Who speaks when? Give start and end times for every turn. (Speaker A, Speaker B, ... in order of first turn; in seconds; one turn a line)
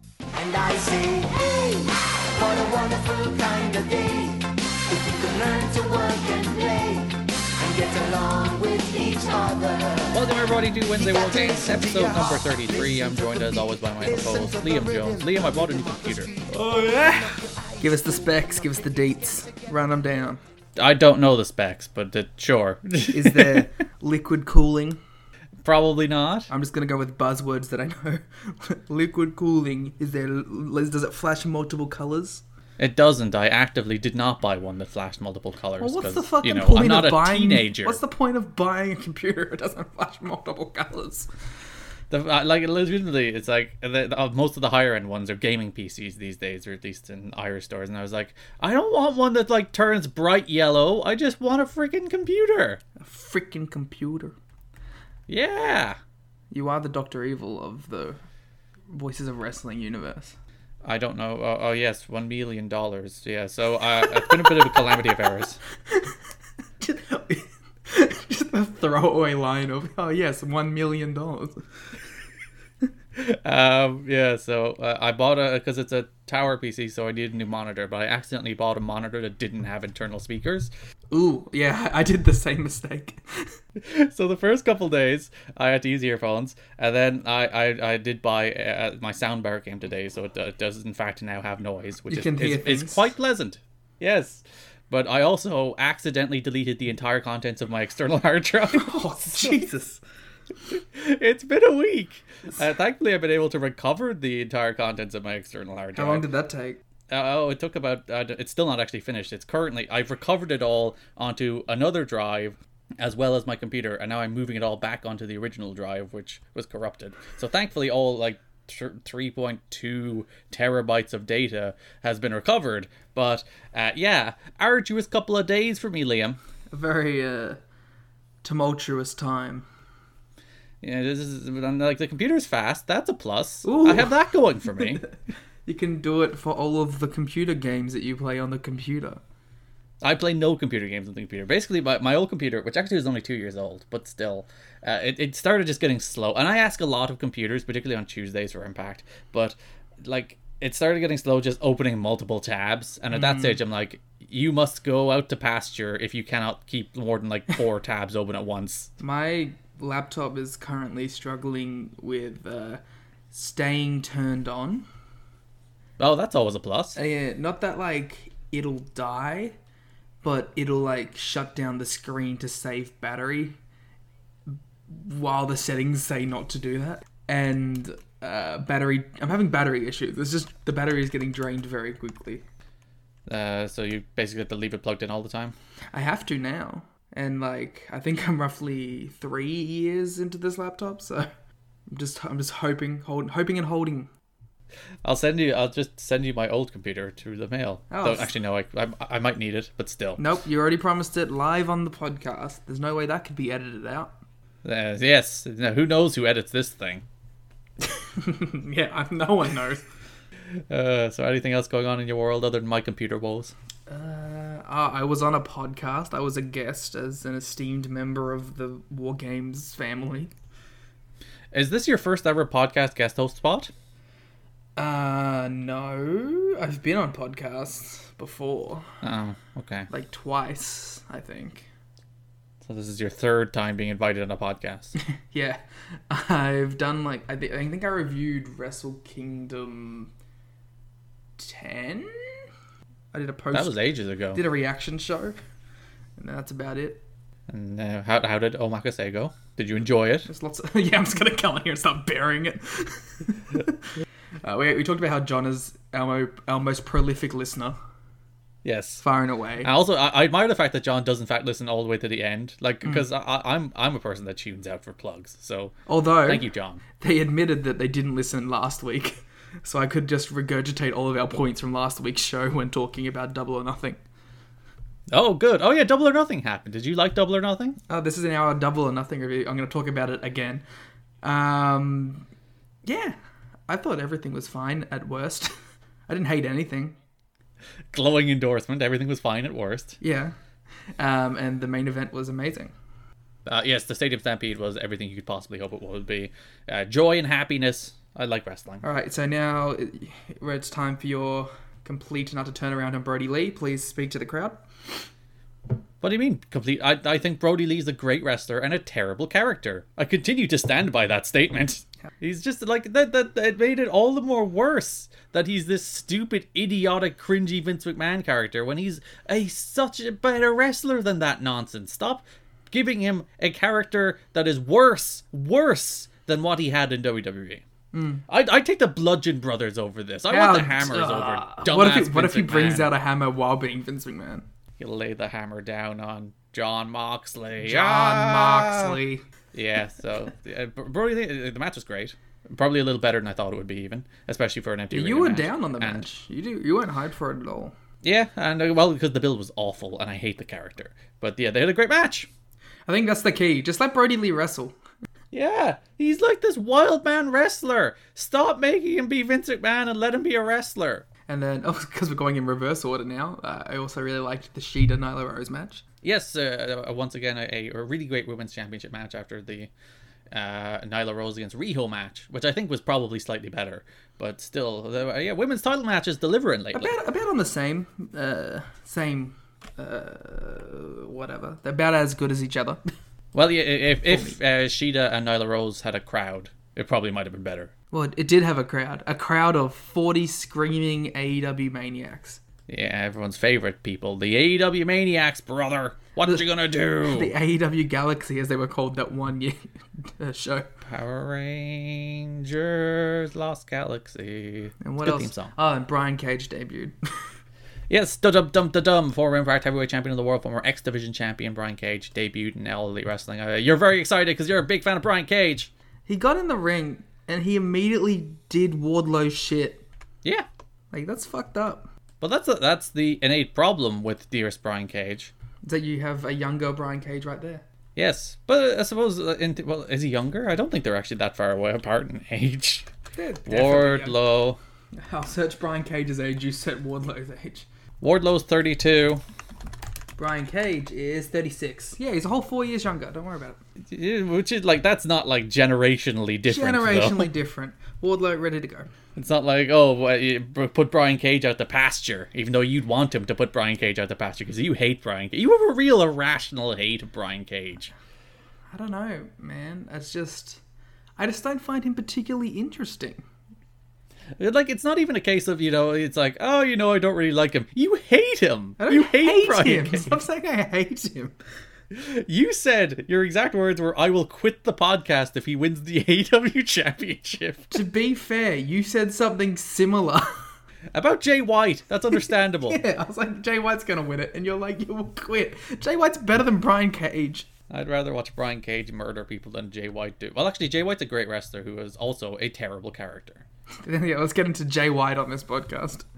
Speaker A: 0.3-10.3
Speaker B: 10.1-16.3
Speaker A: 10.9-13.4
Speaker A: 14.0-16.6
Speaker C: 16.5-20.4
Speaker A: 17.8-18.8
Speaker B: 20.8-23.7
Speaker C: 23.1-25.0
Speaker B: 25.6-26.5
Speaker C: 26.5-32.4
Speaker B: 32.8-38.0
Speaker C: 35.8-41.3
Speaker B: 42.1-52.8
Speaker C: 53.0-54.3
Speaker B: 55.3-56.0
Speaker C: 56.5-58.2
Speaker C: 58.9-60.3
Speaker B: 60.8-65.6
Speaker C: 64.1-64.8
Speaker C: 66.8-71.6
Speaker B: 73.2-80.7
Speaker C: 81.1-83.6
Speaker B: 83.8-99.6
Speaker C: 92.1-93.0
Speaker C: 98.7-100.0
Speaker B: 100.7-106.3
Speaker C: 105.9-106.8
Speaker B: 107.1-126.4
Speaker C: 126.7-127.6
Speaker C: 128.4-129.7
Speaker B: 130.8-135.0
Speaker C: 133.6-134.2
Speaker C: 135.7-139.2
Speaker B: 140.0-158.9
Speaker C: 153.1-153.6
Speaker C: 159.0-164.8
Speaker B: 166.0-167.0
Speaker C: 166.9-169.5
Speaker C: 170.2-173.6
Speaker C: 174.5-182.4
Speaker B: 183.3-185.5
Speaker C: 185.9-191.3
Speaker C: 191.9-194.1
Speaker B: 195.0-200.3
Speaker C: 197.9-198.3
Speaker C: 200.2-204.1
Speaker B: 204.6-207.0
Speaker C: 207.9-209.8
Speaker B: 210.7-213.5
Speaker C: 213.9-220.3
Speaker B: 221.5-223.7
Speaker C: 224.8-228.9
Speaker B: 229.0-229.9
Speaker C: 229.9-231.7
Speaker B: 232.6-234.9
Speaker C: 235.0-240.1
Speaker C: 241.4-242.4
Speaker C: 243.1-243.8
Speaker B: 243.5-244.4
Speaker C: 244.3-245.3
Speaker C: 246.2-247.0
Speaker B: 247.5-250.3
Speaker C: 250.2-253.9
Speaker C: 254.4-257.8
Speaker B: 258.6-259.0
Speaker C: 259.0-259.7
Speaker B: 259.6-266.8
Speaker C: 265.9-266.5
Speaker C: 267.0-274.0
Speaker B: 275.1-277.8
Speaker C: 277.9-280.6
Speaker C: 281.2-282.2
Speaker C: 282.9-283.2
Speaker C: 283.7-285.5
Speaker C: 286.1-287.0
Speaker B: 287.9-290.0
Speaker C: 290.0-290.4
Speaker C: 291.0-292.7
Speaker B: 293.4-298.8
Speaker C: 298.8-304.6
Speaker B: 306.0-327.6
Speaker C: 327.9-328.2
Speaker B: 328.3-332.9
Speaker C: 330.3-334.4
Speaker B: 334.8-339.0
Speaker C: 337.6-339.2
Speaker B: 339.5-346.1
Speaker C: 344.9-347.7
Speaker B: 348.0-352.3
Speaker C: 352.9-354.8
Speaker B: 355.3-361.0
Speaker C: 361.3-365.8
Speaker B: 366.0-369.7
Speaker B: 370.3-376.9
Speaker C: 376.7-382.8
Speaker B: 383.3-387.7
Speaker C: 384.1-384.4
Speaker C: 387.9-392.4
Speaker B: 392.7-397.3
Speaker C: 397.0-400.7
Speaker B: 400.9-405.5
Speaker C: 404.8-406.9
Speaker B: 407.9-415.7
Speaker C: 416.1-419.9
Speaker C: 420.9-421.9
Speaker B: 422.2-425.3
Speaker C: 425.6-427.6
Speaker B: 427.9-432.9
Speaker C: 433.1-434.2
Speaker B: 433.4-434.6
Speaker C: 435.0-437.6
Speaker B: 438.0-439.2
Speaker C: 440.2-443.6
Speaker B: 443.8-447.3
Speaker C: 446.5-448.9
Speaker B: 449.1-457.9
Speaker C: 458.7-460.6
Speaker C: 461.2-463.2
Speaker B: 464.4-470.2
Speaker C: 468.8-471.3
Speaker B: 471.9-477.8
Speaker C: 477.7-480.3
Speaker B: 480.9-482.8
Speaker C: 482.3-487.5
Speaker B: 487.7-493.4
Speaker C: 493.8-496.0